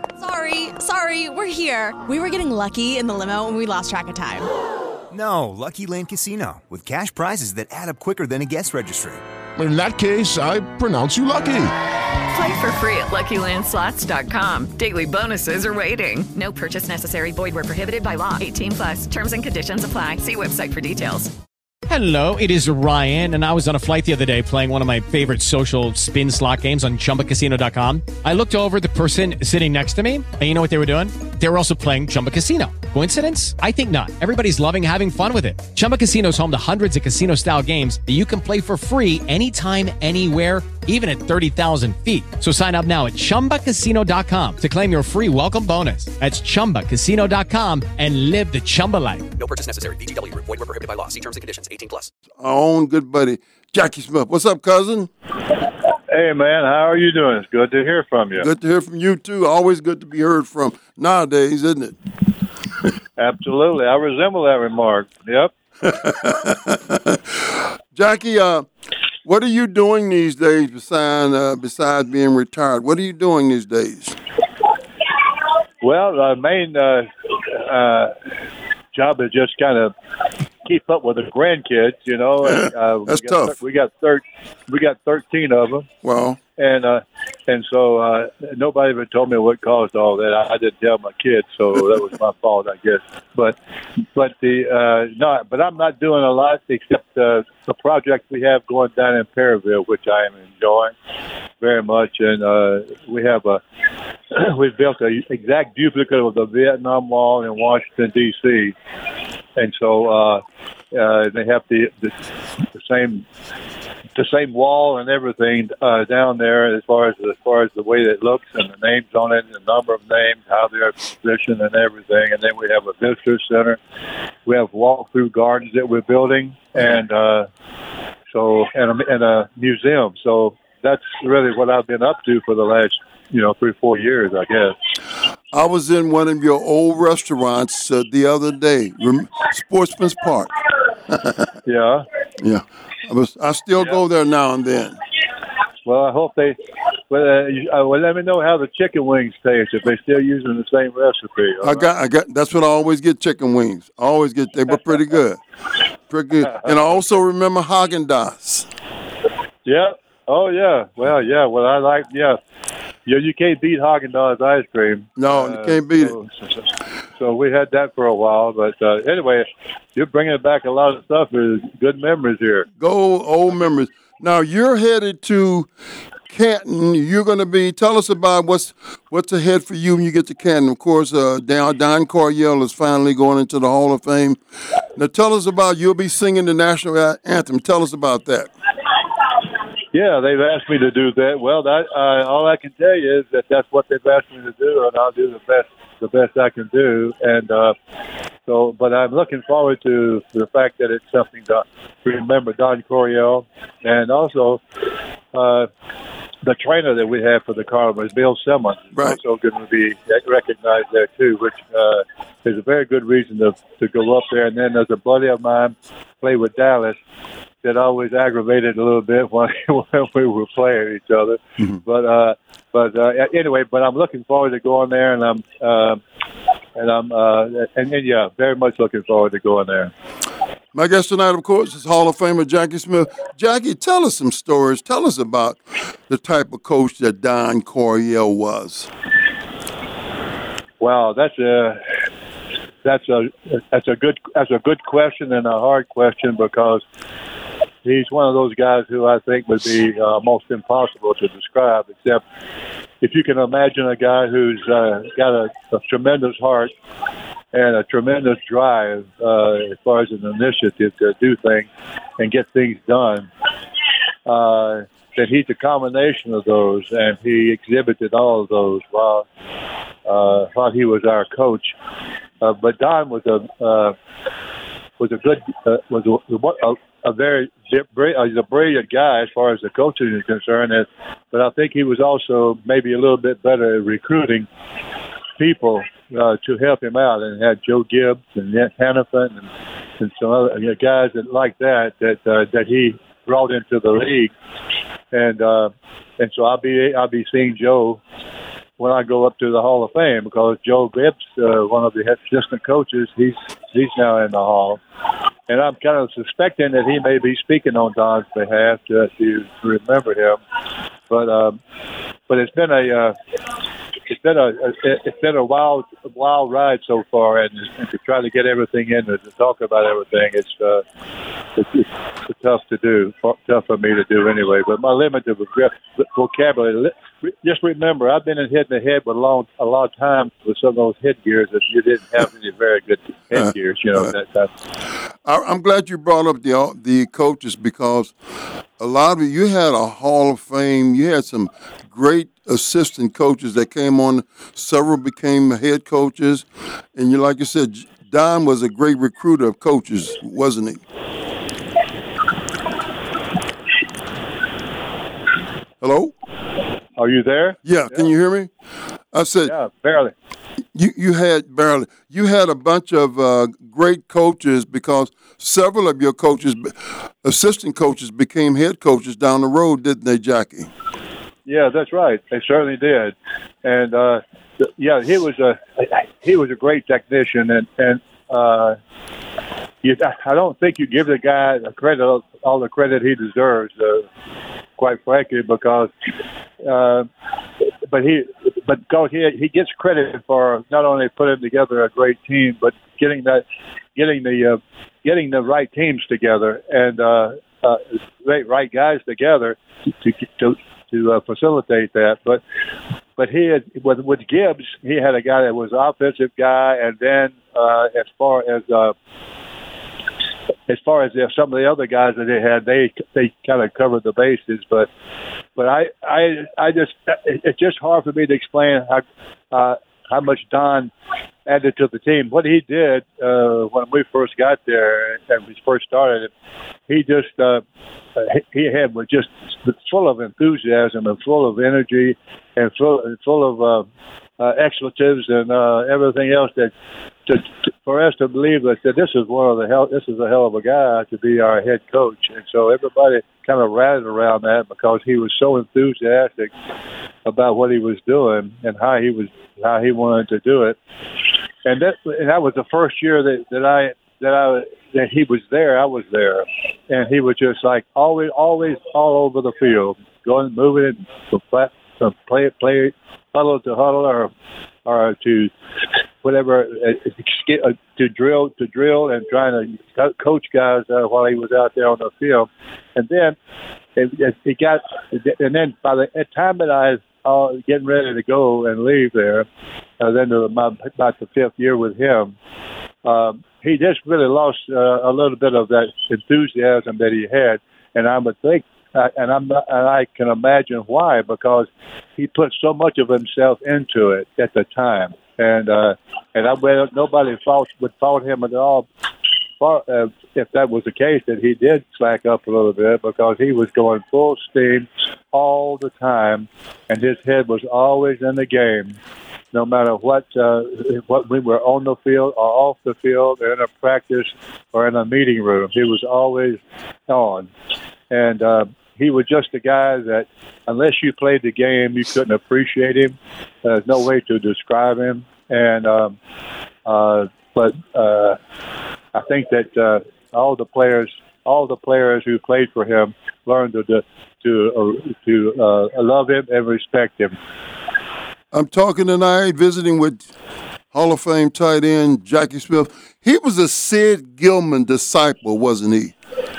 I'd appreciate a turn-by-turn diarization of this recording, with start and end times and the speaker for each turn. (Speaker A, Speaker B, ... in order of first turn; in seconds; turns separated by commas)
Speaker A: 0.2-4.5, Speaker B: 5.1-9.2, Speaker C: 9.6-11.7, Speaker D: 12.3-21.3, Speaker E: 21.9-49.3, Speaker F: 49.4-52.1, Speaker G: 52.4-55.1, Speaker H: 56.1-58.5, Speaker G: 58.4-62.0, Speaker H: 63.2-65.5, Speaker G: 65.8-68.7, Speaker G: 69.2-74.2, Speaker H: 75.8-78.1, Speaker H: 78.9-79.9, Speaker H: 80.6-85.9, Speaker G: 82.4-83.5, Speaker G: 86.0-86.4, Speaker H: 86.6-93.6, Speaker H: 94.1-100.9, Speaker H: 101.6-103.6, Speaker H: 104.3-108.7, Speaker H: 109.6-112.1, Speaker H: 112.7-113.2, Speaker H: 114.1-123.8, Speaker H: 124.5-127.5, Speaker H: 128.3-134.8, Speaker G: 135.5-140.5, Speaker G: 141.1-141.4, Speaker H: 141.6-142.0, Speaker G: 142.4-145.0, Speaker H: 145.8-146.6, Speaker H: 147.1-151.8, Speaker G: 151.6-155.4, Speaker G: 156.1-158.7, Speaker H: 159.6-162.4, Speaker H: 163.1-172.7, Speaker G: 165.2-166.2, Speaker G: 172.8-175.7, Speaker G: 176.3-184.4, Speaker G: 184.9-188.5, Speaker H: 189.9-197.7, Speaker H: 198.5-204.6, Speaker H: 205.3-205.7, Speaker H: 206.4-217.0, Speaker H: 217.6-226.0, Speaker H: 226.8-229.9, Speaker G: 230.7-238.9, Speaker H: 240.8-241.8, Speaker H: 242.8-246.8, Speaker H: 247.8-252.2, Speaker H: 253.0-256.7, Speaker H: 257.5-261.7, Speaker H: 262.2-263.3, Speaker H: 264.2-269.2, Speaker H: 270.1-271.7, Speaker H: 272.4-273.9, Speaker H: 275.0-284.5, Speaker H: 285.4-289.4, Speaker H: 290.0-294.3, Speaker H: 295.1-298.0, Speaker H: 298.8-304.8, Speaker H: 305.5-310.4, Speaker H: 311.1-311.6, Speaker H: 312.3-313.1, Speaker H: 314.1-320.8, Speaker H: 321.6-334.5, Speaker G: 335.2-338.1, Speaker G: 338.8-350.8, Speaker G: 355.8-356.1, Speaker H: 357.0-357.6, Speaker G: 357.6-358.5, Speaker G: 359.1-359.5, Speaker H: 359.4-360.1, Speaker G: 360.7-370.7, Speaker H: 371.4-378.8, Speaker H: 379.8-384.1, Speaker H: 384.8-385.9, Speaker H: 386.6-387.1, Speaker H: 387.9-393.4, Speaker H: 393.9-402.4, Speaker H: 403.2-408.9, Speaker H: 410.7-414.9, Speaker H: 415.6-420.9, Speaker H: 421.4-426.3, Speaker H: 426.9-427.6, Speaker H: 428.1-433.9, Speaker H: 434.4-436.7, Speaker H: 437.2-446.5, Speaker H: 447.2-450.8, Speaker H: 451.6-464.3, Speaker H: 464.9-465.5, Speaker H: 466.2-473.4, Speaker H: 473.9-479.4, Speaker H: 480.0-482.3, Speaker H: 483.0-498.9, Speaker H: 499.6-509.0, Speaker H: 509.5-517.5, Speaker H: 518.1-526.1, Speaker H: 526.9-528.4, Speaker H: 529.1-537.4, Speaker G: 538.5-540.2, Speaker G: 540.9-546.1